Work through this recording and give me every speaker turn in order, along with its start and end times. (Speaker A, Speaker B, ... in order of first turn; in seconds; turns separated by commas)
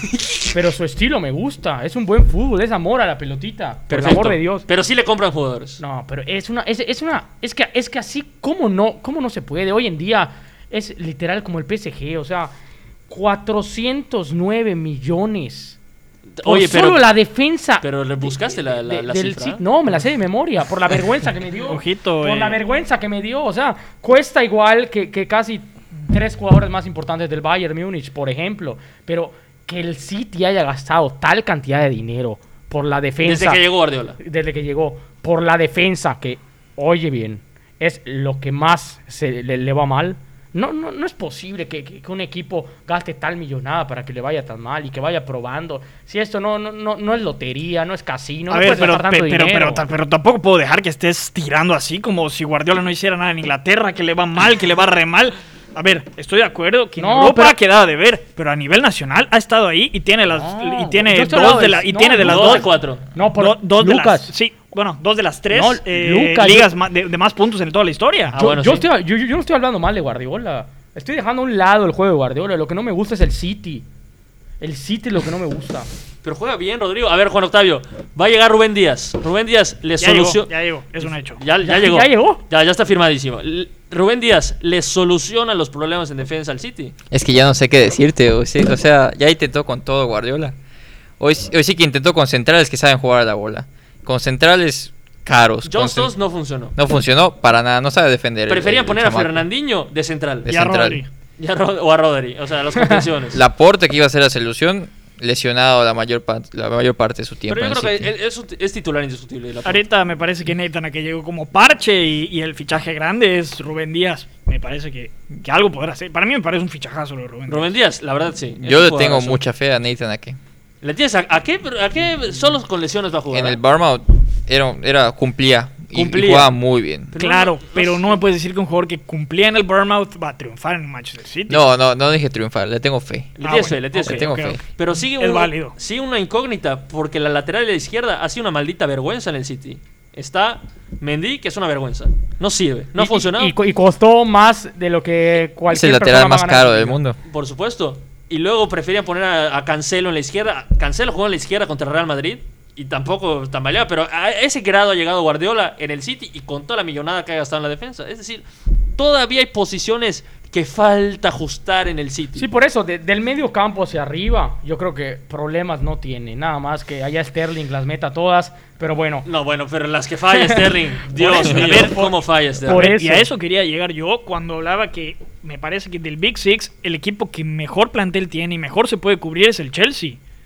Speaker A: 0.5-4.7, Speaker B: 3.9-5.8, Speaker A: 5.8-12.5, Speaker A: 13.1-15.8, Speaker B: 16.4-17.1, Speaker A: 16.4-33.6, Speaker B: 17.8-19.6, Speaker C: 21.7-22.6, Speaker B: 33.2-34.2, Speaker A: 34.2-49.8, Speaker C: 48.5-62.7, Speaker A: 57.0-57.6, Speaker A: 60.3-64.3, Speaker B: 62.2-63.0, Speaker C: 63.4-68.3, Speaker A: 65.5-66.7, Speaker B: 68.3-68.8, Speaker A: 68.3-73.8, Speaker A: 74.6-75.9, Speaker B: 76.2-86.9, Speaker C: 80.0-81.4, Speaker A: 81.6-82.4, Speaker D: 87.1-90.5, Speaker D: 91.2-96.1, Speaker B: 95.6-96.7, Speaker D: 96.8-99.4, Speaker B: 98.5-100.5, Speaker D: 100.4-101.0, Speaker C: 100.5-101.1, Speaker B: 101.4-103.4, Speaker D: 103.3-108.1, Speaker B: 107.5-109.8, Speaker C: 109.6-117.7, Speaker B: 117.5-119.4, Speaker D: 118.6-120.4, Speaker B: 120.8-123.6, Speaker D: 123.3-127.1, Speaker B: 125.9-126.5, Speaker B: 127.1-128.2, Speaker C: 127.2-131.6, Speaker D: 131.5-133.3, Speaker B: 133.3-143.5, Speaker C: 133.4-135.7, Speaker D: 134.0-134.6, Speaker A: 142.9-147.0, Speaker D: 145.7-147.2, Speaker B: 147.2-158.4, Speaker B: 159.0-162.4, Speaker A: 162.3-169.2, Speaker B: 169.2-172.9, Speaker A: 170.4-170.7, Speaker C: 171.2-172.1, Speaker A: 171.2-172.1, Speaker C: 172.6-180.2, Speaker A: 172.7-173.3